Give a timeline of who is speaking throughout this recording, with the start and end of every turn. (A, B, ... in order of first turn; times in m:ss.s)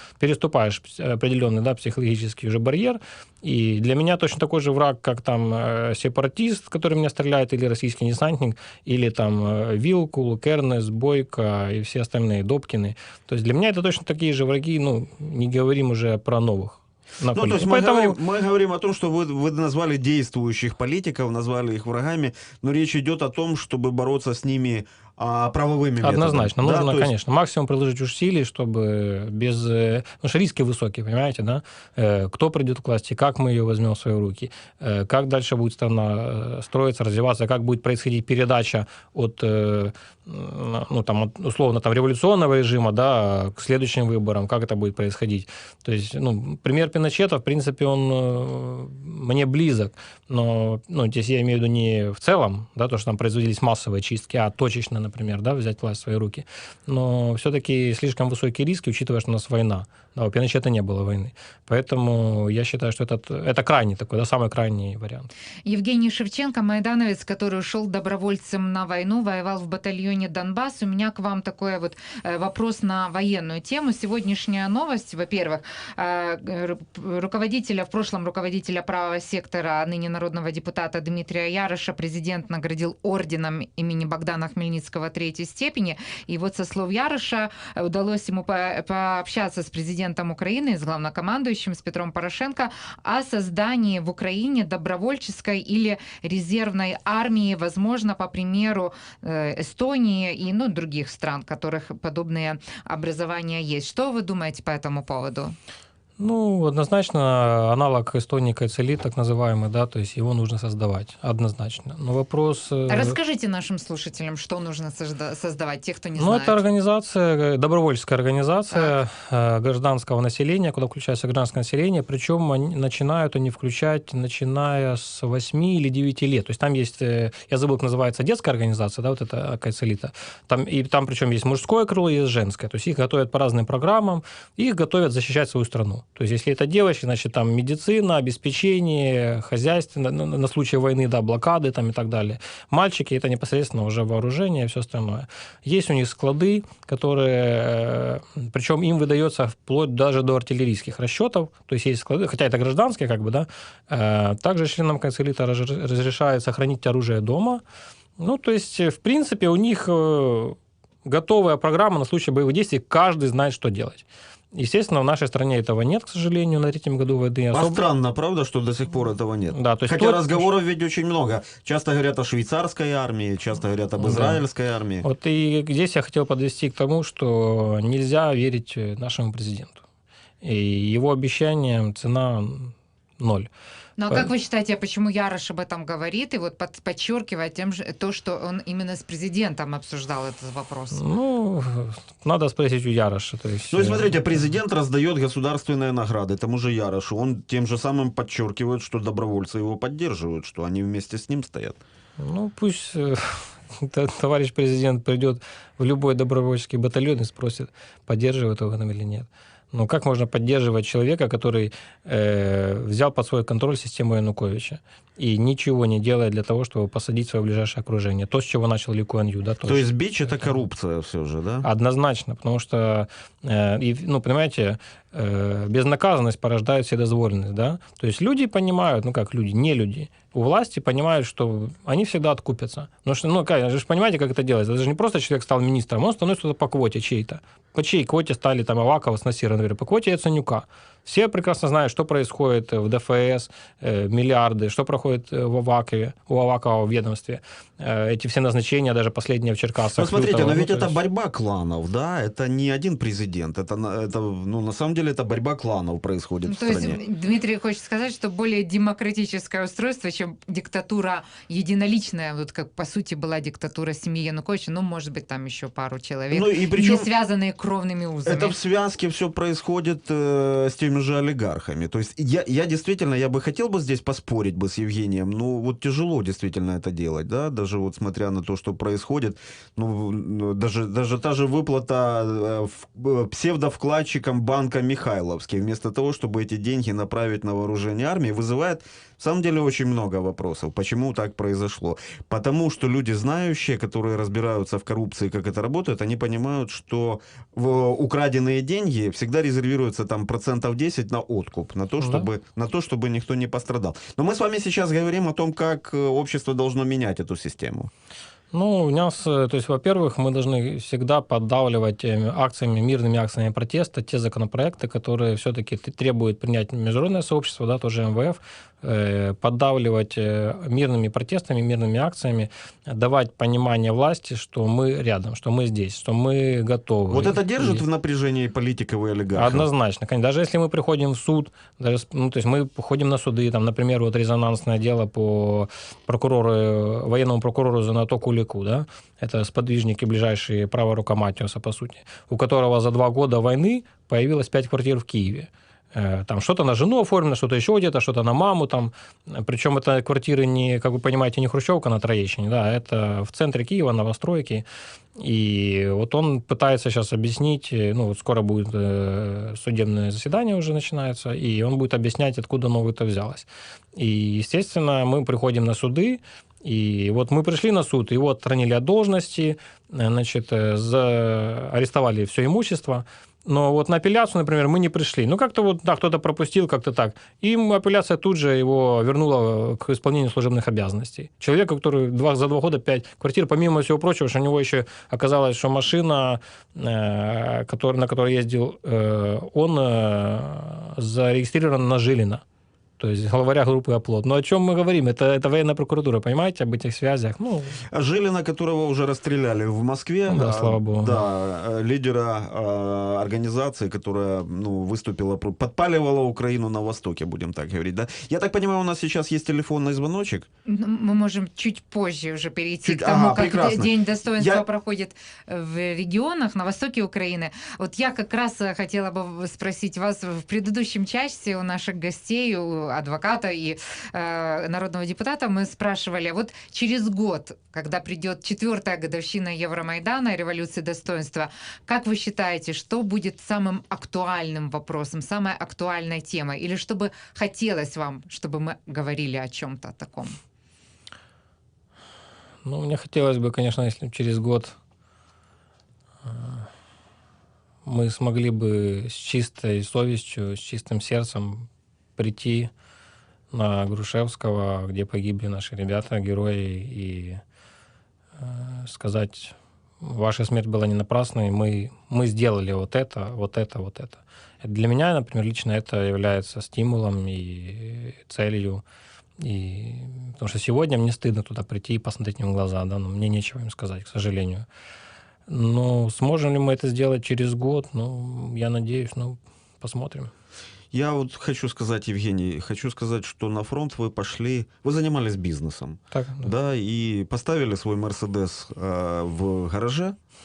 0:00.2-0:18.2 A
0:17.3-0:27.1 B
0:26.0-1:05.3 A
1:05.6-1:45.6 C
1:46.2-1:53.2 A
1:52.9-1:56.6 C
1:56.2-2:37.6 A
2:38.2-2:47.8 A
2:47.5-2:55.0 B
2:49.5-2:50.4 A
2:54.0-2:54.4 A
2:55.0-2:59.8 A
3:00.4-3:03.5 A
3:04.0-3:11.0 C
3:10.9-3:14.2 A
3:13.7-3:21.8 B
3:22.2-3:39.8 A
3:39.6-3:41.7 B
3:41.6-4:10.9 A
4:10.0-4:17.0 B
4:16.4-4:28.6 C
4:26.3-4:27.1 B
4:28.2-5:07.9 B
5:02.0-5:02.3 A
5:08.5-5:27.8 A
5:27.1-5:29.7 B
5:29.4-5:54.6 A
5:55.2-6:32.4 A
6:33.0-6:37.8 A
6:37.9-6:50.5 B
6:40.3-6:41.2 A
6:50.6-7:20.4 C
6:52.8-6:54.6 B
7:22.6-7:24.8 A
7:26.2-7:26.7 A
7:27.8-7:32.7 A
7:33.5-7:37.4 A
7:38.4-7:48.8 A
7:49.4-7:54.6 A
7:55.5-8:00.3 A
8:00.9-8:10.2 B
8:06.1-8:06.5 A